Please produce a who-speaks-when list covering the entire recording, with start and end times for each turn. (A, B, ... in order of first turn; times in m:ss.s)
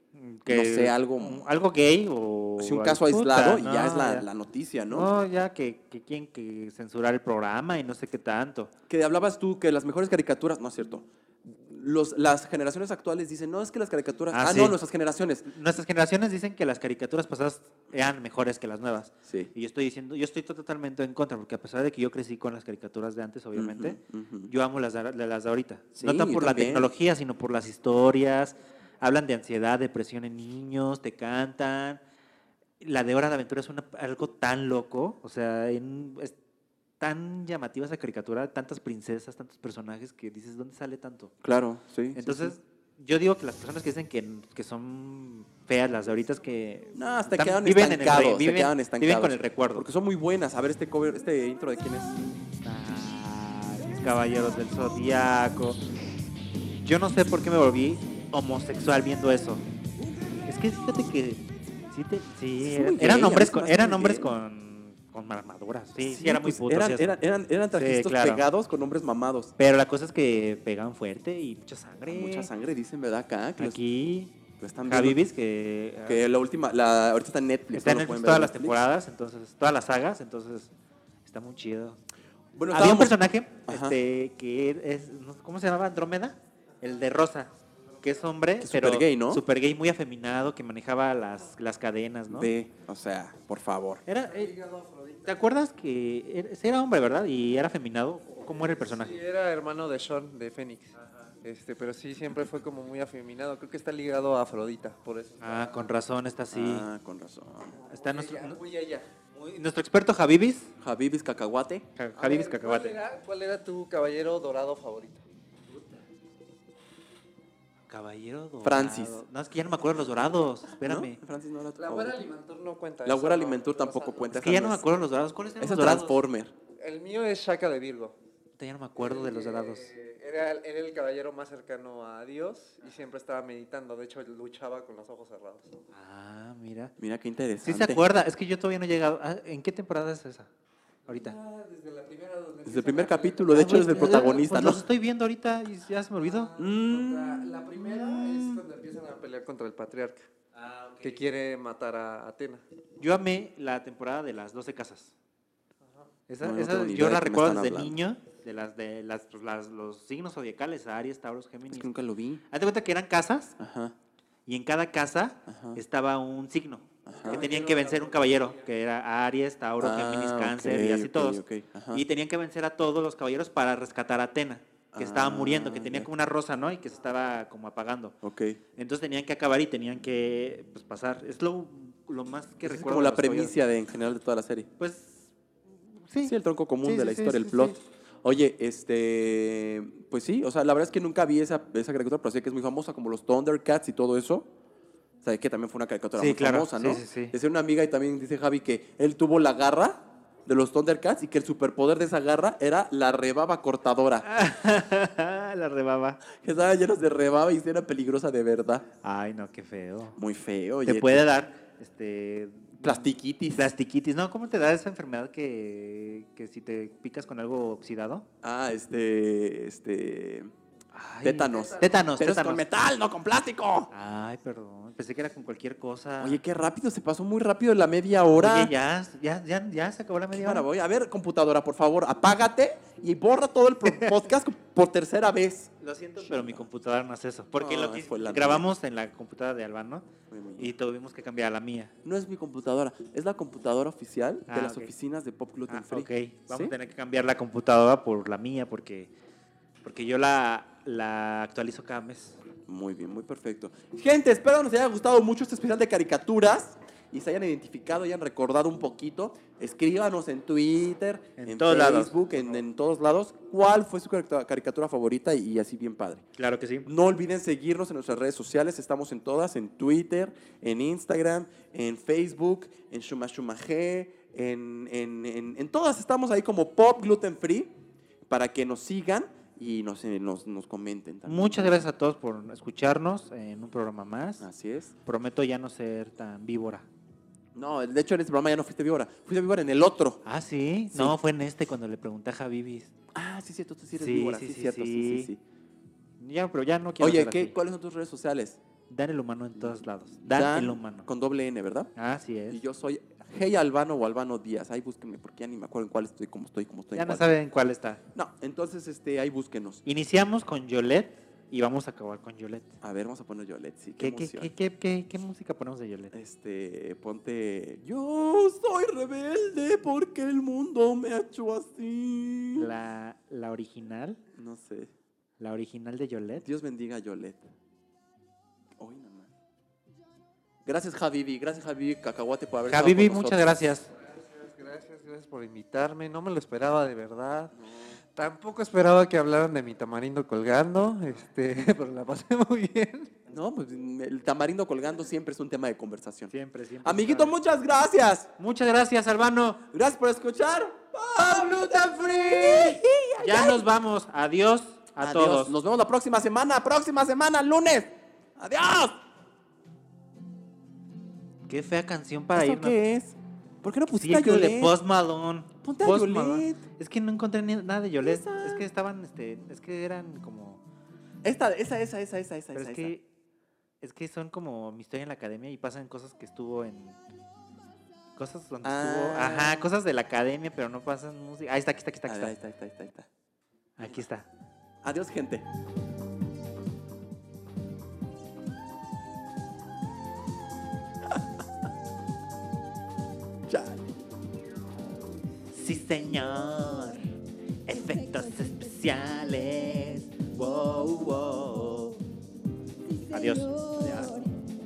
0:00.1-0:04.3 A
0:00.5-0:01.4 B
0:02.6-0:05.1 B
0:04.9-0:08.7 A
0:08.9-0:15.5 B
0:14.3-0:14.8 A
0:15.4-0:32.0 A
0:19.2-0:19.5 B
0:23.5-0:24.5 B
0:26.0-0:26.9 B
0:32.8-0:36.3 A
0:37.0-0:41.3 A
0:41.4-0:42.6 B
0:42.1-0:49.9 A
0:46.9-0:52.1 B
0:52.6-0:55.8 A
0:56.8-0:59.6 A
1:00.4-1:07.2 A
1:02.6-1:04.3 B
1:06.0-1:09.5 B
1:07.7-1:08.4 A
1:09.6-1:12.5 A
1:12.1-1:13.8 B
1:13.6-1:14.3 A
1:14.6-1:15.2 B
1:14.8-1:16.2 A
1:16.0-1:18.8 B
1:17.7-1:20.7 A
1:21.2-1:22.0 A
1:22.5-1:24.0 B
1:22.7-1:32.5 A
1:28.6-1:29.4 B
1:32.3-1:34.0 B
1:34.1-1:34.5 A
1:34.2-1:35.4 C
1:35.2-1:39.2 A
1:38.4-1:45.7 C
1:45.4-1:46.9 A
1:46.5-1:47.8 B
1:47.7-1:49.1 C
1:47.9-1:48.6 A
1:49.3-1:50.7 A
1:50.8-1:51.9 B
1:52.0-1:53.0 A
1:52.2-1:55.2 C
1:57.9-2:01.2 A
1:58.6-1:59.2 B
2:00.6-2:02.2 B
2:01.8-2:04.3 C
2:03.0-2:04.8 B
2:04.3-2:06.2 A
2:05.6-2:06.5 B
2:06.8-2:08.2 C
2:08.6-2:09.9 A
2:09.0-2:15.8 C
2:15.9-2:16.9 A
2:17.0-2:18.1 B
2:17.6-2:20.5 A
2:21.0-2:24.8 C
2:21.1-2:21.4 A
2:22.6-2:24.8 B
2:23.5-2:26.5 A
2:26.2-2:30.2 C
2:26.6-2:28.6 B
2:30.6-2:31.2 A
2:31.0-2:32.6 C
2:33.0-2:35.1 A
2:35.8-2:36.1 C
2:36.3-2:41.9 A
2:36.4-2:38.0 B
2:41.7-2:42.4 B
2:42.5-2:43.6 A
2:43.6-2:43.9 B
2:44.5-2:51.4 A
2:45.5-2:45.8 B
2:47.0-2:47.4 B
2:47.1-2:48.7 C
2:49.8-2:52.0 B
2:51.9-2:58.2 A
2:54.9-2:56.1 B
2:58.2-2:58.6 B
2:58.8-3:03.5 A
3:02.6-3:04.7 B
3:04.8-3:05.3 A
3:06.0-3:07.8 A
3:06.2-3:14.5 B
3:15.2-3:24.2 B
3:16.2-3:17.3 A
3:24.2-3:26.2 A
3:26.2-3:28.8 B
3:29.0-3:30.2 A
3:30.2-3:31.2 B
3:30.8-3:38.2 A
3:32.8-3:33.7 B
3:38.4-3:40.5 B
3:40.9-3:42.6 A
3:41.2-3:43.9 B
3:41.6-3:41.9 C
3:43.9-3:46.4 A
3:46.2-3:48.7 B
3:48.4-3:50.7 A
3:50.3-3:56.7 B
3:55.8-4:01.9 A
3:57.6-3:58.6 B
4:00.3-4:00.7 B
4:02.0-4:06.7 B
4:04.5-4:04.9 A
4:05.7-4:09.1 A
4:09.8-4:12.4 A
4:12.7-4:26.2 B
4:21.4-4:22.2 A
4:26.4-4:26.9 A
4:26.8-4:37.7 B
4:38.3-4:41.8 B
4:41.2-4:44.4 A
4:44.4-4:44.9 B
4:45.0-4:46.9 A
4:47.5-4:50.2 B
4:50.2-4:52.9 A
4:50.9-4:51.2 B
4:53.1-4:55.4 B
4:53.9-4:55.3 A
4:56.2-4:57.5 A
4:57.0-4:58.6 B
4:58.9-5:01.1 A
4:59.6-5:01.9 B
5:02.0-5:02.6 A
5:02.5-5:07.3 B
5:06.9-5:08.0 A
5:08.1-5:09.8 B
5:09.8-5:12.7 A
5:12.8-5:14.5 B
5:14.0-5:16.1 A
5:16.1-5:22.7 B
5:22.5-5:24.2 A
5:24.3-5:24.9 B
5:25.4-5:26.4 A
5:26.4-5:27.5 B
5:28.8-5:29.3 B
5:30.6-5:33.6 B
5:32.7-5:33.9 A
5:33.9-5:37.5 C
5:37.5-5:38.0 B
5:38.1-5:43.1 C
5:43.3-5:48.3 B
5:46.3-5:47.3 A
5:48.4-5:49.6 A
5:49.7-5:53.6 B
5:51.2-5:55.6 A
5:55.0-5:59.0 B
6:01.5-6:02.8 A
6:02.3-6:04.8 B
6:03.9-6:10.6 A
6:05.6-6:06.6 B
6:08.0-6:08.6 B
6:11.2-6:12.9 B
6:12.5-6:13.0 A
6:13.8-6:17.0 A
6:18.2-6:22.3 A
6:18.6-6:19.7 B
6:22.0-6:23.1 B
6:23.8-6:24.3 A
6:24.8-6:25.4 B
6:33.5-6:33.8 B
6:35.5-6:37.1 A
6:37.7-6:42.0 A
6:37.7-6:40.0 D
6:40.6-6:42.0 D
6:42.8-6:44.3 D
6:43.1-6:44.1 A